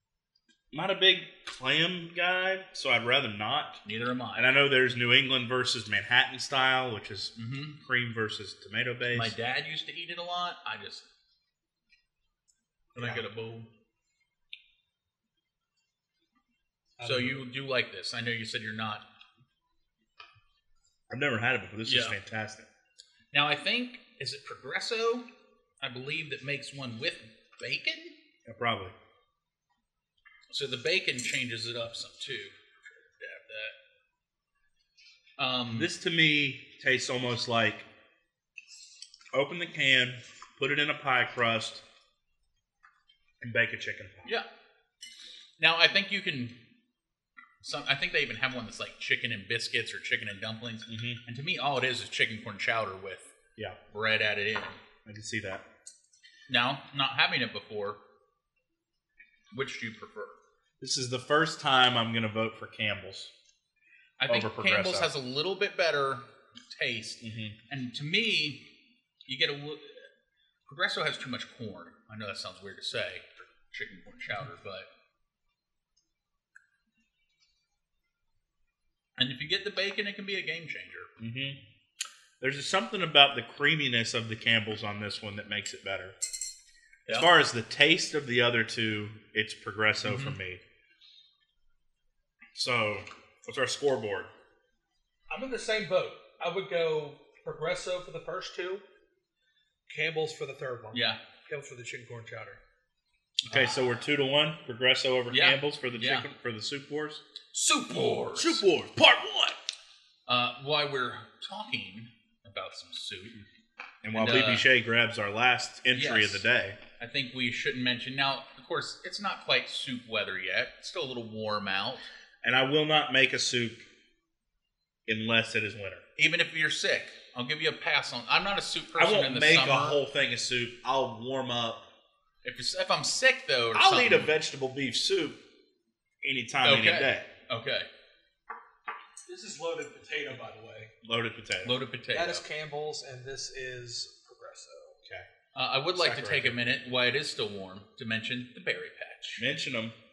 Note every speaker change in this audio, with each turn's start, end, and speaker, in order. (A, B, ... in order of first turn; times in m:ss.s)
0:00.7-0:03.8 A
0:03.8-0:04.5 B
0:04.4-0:09.4 A
0:07.4-0:07.8 B
0:09.1-0:11.1 B
0:13.0-0:13.7 B
0:13.0-0:13.2 C
0:17.0-0:17.4 C
0:17.0-0:19.0 B
0:21.1-0:22.7 A
0:21.8-0:22.2 B
0:23.3-0:25.3 B
0:25.8-0:28.1 B
0:28.4-0:29.0 A
0:30.5-0:33.8 B
0:35.4-0:35.9 B
0:35.7-0:37.9 A
0:39.3-0:41.8 A
0:43.4-0:44.3 A
0:45.6-0:46.6 B
0:47.6-0:53.3 B
0:50.9-0:51.2 A
0:53.9-0:54.8 B
0:55.1-0:55.6 A
0:56.5-0:58.0 B
0:59.5-1:00.4 B
1:00.8-1:03.3 A
1:04.2-1:08.7 B
1:04.3-1:05.1 A
1:07.2-1:07.6 A
1:09.3-1:10.1 B
1:10.7-1:14.9 B
1:19.2-1:21.1 B
1:21.2-1:21.6 A
1:22.4-1:26.2 A
1:27.1-1:30.6 A
1:30.0-1:30.4 B
1:32.6-1:34.3 A
1:35.3-1:38.8 C
1:39.9-1:42.6 C
1:40.9-1:41.2 B
1:43.4-1:43.9 B
1:43.5-1:47.2 A
1:45.3-1:46.3 B
1:47.5-1:48.6 B
1:48.3-1:49.6 A
1:50.3-1:53.4 B
1:54.0-1:56.8 A
1:54.1-1:54.7 B
1:55.9-1:56.5 B
1:57.0-2:02.1 B
2:02.4-2:03.8 A
2:05.1-2:06.0 A
2:06.2-2:10.0 B
2:09.0-2:11.8 A
2:12.4-2:14.4 B
2:13.8-2:15.4 A
2:16.2-2:17.3 A
2:16.6-2:17.9 B
2:19.3-2:20.9 C
2:21.0-2:21.8 A
2:21.6-2:22.4 B
2:22.1-2:25.0 C
2:25.5-2:29.4 B
2:26.0-2:26.7 A
2:29.4-2:30.0 A